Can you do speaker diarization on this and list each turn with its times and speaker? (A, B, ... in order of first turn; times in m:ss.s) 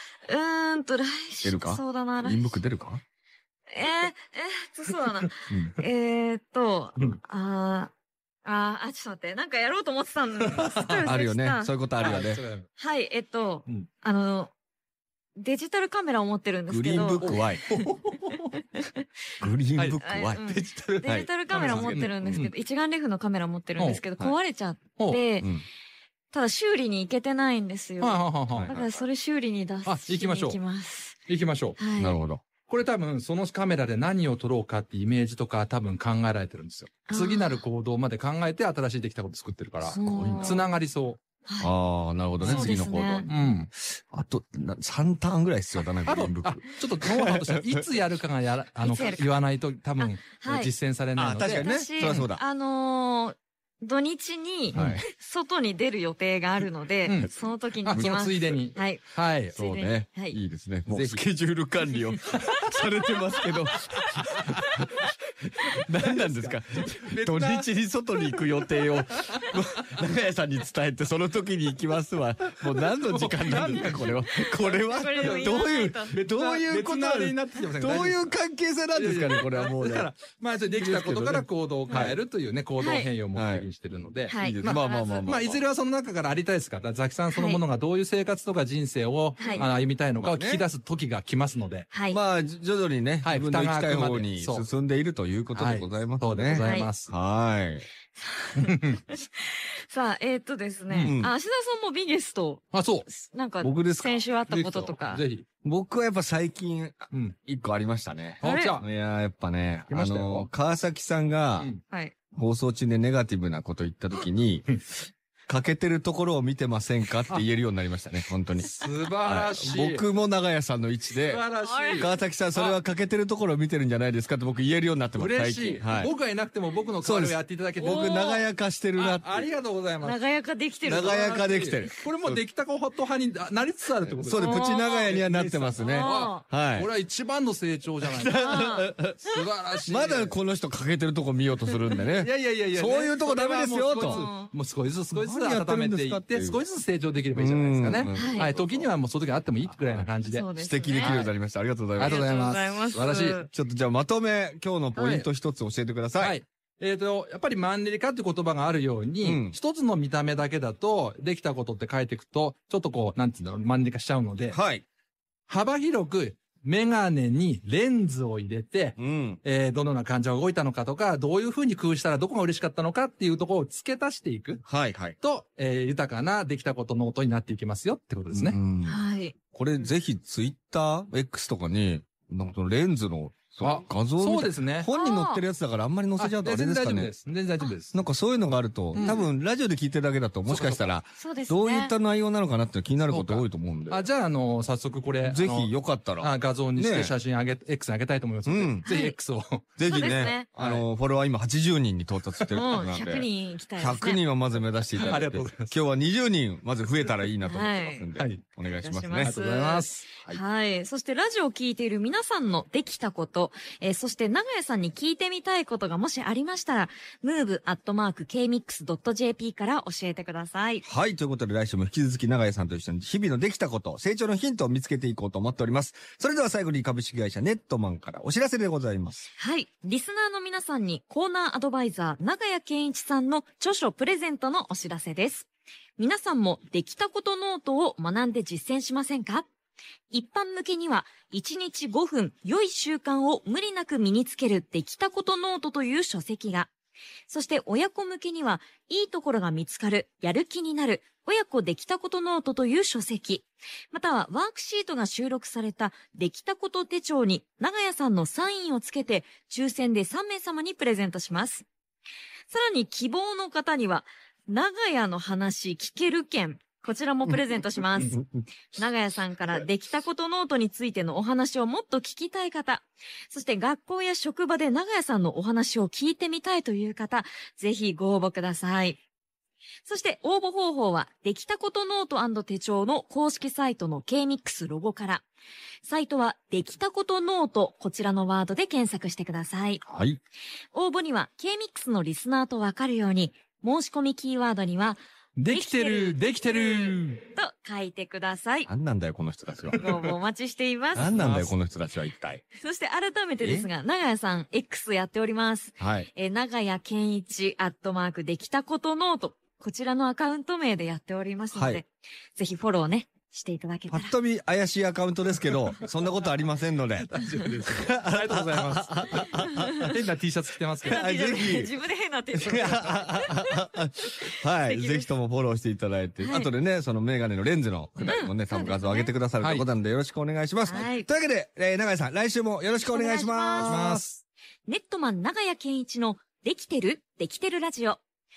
0:00.2-0:02.6 A
0:01.4-0:03.0 B
0:03.7-0:07.9 A
0:05.5-0:05.7 B
0:08.4-0:11.7 A
0:10.4-0:11.0 C
0:11.0-0:12.4 B
0:12.0-0:12.7 C
0:12.8-0:14.5 A
0:15.4-0:17.8 A
0:16.7-0:17.6 B
0:17.2-0:18.6 C
0:19.4-0:20.4 B
0:19.8-0:22.1 C
0:20.0-0:25.5 A
0:21.0-0:22.5 B
0:23.8-0:24.0 C
0:25.0-0:25.2 C
0:25.4-0:25.6 B
0:26.3-0:31.2 A
0:28.0-0:28.7 C
0:28.5-0:29.0 B
0:29.8-0:30.6 C
0:31.3-0:31.8 C
0:31.8-0:32.2 A
0:32.0-0:32.4 B
0:32.7-0:41.2 C
0:37.1-0:37.6 A
0:39.8-0:40.6 A
0:40.0-0:40.7 B
0:41.6-0:47.9 B
0:42.4-0:42.7 C
0:42.4-0:43.3 A
0:43.3-0:43.7 C
0:45.9-0:52.3 C
0:48.8-0:49.4 A
0:50.0-0:50.7 A
0:51.2-0:52.4 B
0:51.4-0:59.0 A
0:54.7-0:55.0 C
0:54.7-0:55.0 B
0:57.0-0:57.3 C
0:57.9-0:59.6 C
0:57.9-0:58.6 B
0:59.5-1:20.1 B
0:59.5-1:00.4 A
1:00.9-1:01.2 C
1:02.2-1:02.5 C
1:02.4-1:02.8 A
1:03.4-1:05.1 A
1:04.3-1:04.7 C
1:05.7-1:09.6 C
1:13.0-1:18.3 C
1:14.9-1:16.1 A
1:18.9-1:31.9 C
1:20.7-1:22.2 B
1:21.9-1:22.2 A
1:22.8-1:23.1 A
1:23.3-1:23.7 B
1:24.3-1:25.3 A
1:24.4-1:25.6 B
1:27.3-1:27.6 A
1:29.4-1:29.7 A
1:29.5-1:30.6 B
1:31.9-1:32.2 A
1:32.1-1:37.8 B
1:33.2-1:34.6 C
1:35.5-1:37.1 C
1:36.5-1:36.9 A
1:38.2-1:45.2 A
1:38.6-1:39.0 C
1:40.9-1:41.2 C
1:41.0-1:41.3 B
1:42.7-1:43.1 C
1:43.6-1:44.2 B
1:44.5-1:45.4 C
1:45.6-1:51.7 B
1:48.4-1:48.9 C
1:48.4-1:48.8 A
1:49.9-1:50.5 C
1:51.9-1:52.1 A
1:52.3-1:54.8 B
1:55.5-1:58.7 B
1:58.6-2:00.0 C
1:59.2-2:01.4 B
2:01.2-2:02.8 C
2:01.6-2:02.1 A
2:02.0-2:06.1 B
2:05.1-2:08.4 C
2:07.0-2:09.5 B
2:07.8-2:08.4 A
2:08.9-2:10.2 C
2:10.0-2:12.0 A
2:10.8-2:12.4 B
2:10.9-2:20.4 C
2:14.0-2:16.9 B
2:14.3-2:15.1 A
2:15.8-2:16.4 A
2:18.0-2:24.2 B
2:18.4-2:18.9 A
2:21.9-2:31.3 C
2:24.0-2:24.5 A
2:25.1-2:26.6 B
2:27.3-2:28.9 B
2:28.1-2:28.5 A
2:29.7-2:32.2 B
2:30.2-2:31.2 A
2:32.0-2:33.4 C
2:32.0-2:33.5 A
2:33.5-2:36.4 B
2:35.0-2:35.2 A
2:36.2-2:44.6 C
2:39.2-2:39.6 B
2:44.5-2:44.8 B
2:45.5-2:54.6 C
2:49.0-2:49.4 B
2:54.6-2:55.2 B
2:55.2-2:58.6 C
2:58.3-2:59.0 B
2:58.8-2:59.9 A
2:59.5-3:07.1 B
3:03.6-3:04.9 C
3:04.9-3:05.4 A
3:06.2-3:07.9 C
3:07.9-3:14.0 B
3:08.9-3:09.3 C
3:09.0-3:09.2 A
3:10.5-3:11.0 C
3:11.2-3:11.9 A
3:13.0-3:20.8 C
3:15.2-3:17.1 B
3:18.4-3:18.8 B
3:18.8-3:19.2 A
3:19.8-3:29.3 B
3:19.8-3:20.5 A
3:22.4-3:22.8 C
3:22.5-3:24.2 A
3:24.9-3:25.8 C
3:27.4-3:28.1 A
3:28.1-3:28.4 C
3:28.8-3:40.8 A
3:29.2-3:30.1 C
3:40.8-3:49.3 B
3:49.4-3:59.5 A
4:00.1-4:06.7 A
4:07.3-4:21.6 A
4:22.5-4:28.2 A
4:28.0-4:28.5 B
4:28.7-4:39.0 A
4:39.8-4:45.2 A
4:45.8-4:49.8 A
4:49.8-4:50.2 B
4:50.7-4:55.0 A
4:55.4-4:57.2 C
4:55.5-4:58.7 A
4:58.7-4:59.8 B
4:59.8-5:01.1 A
5:00.9-5:02.4 B
5:01.0-5:01.5 C
5:02.6-5:14.1 A
5:03.4-5:03.7 B
5:05.8-5:06.1 B
5:11.5-5:11.8 B
5:13.9-5:17.1 B
5:17.0-5:21.6 C
5:17.6-5:19.9 B
5:19.4-5:19.9 A
5:20.8-5:21.7 B
5:20.8-5:25.1 A
5:22.3-5:34.0 B
5:26.2-5:26.5 A
5:28.0-5:29.1 A
5:29.4-5:29.6 C
5:30.6-5:31.1 A
5:32.8-5:33.8 A
5:33.6-5:34.2 C
5:34.6-5:38.0 A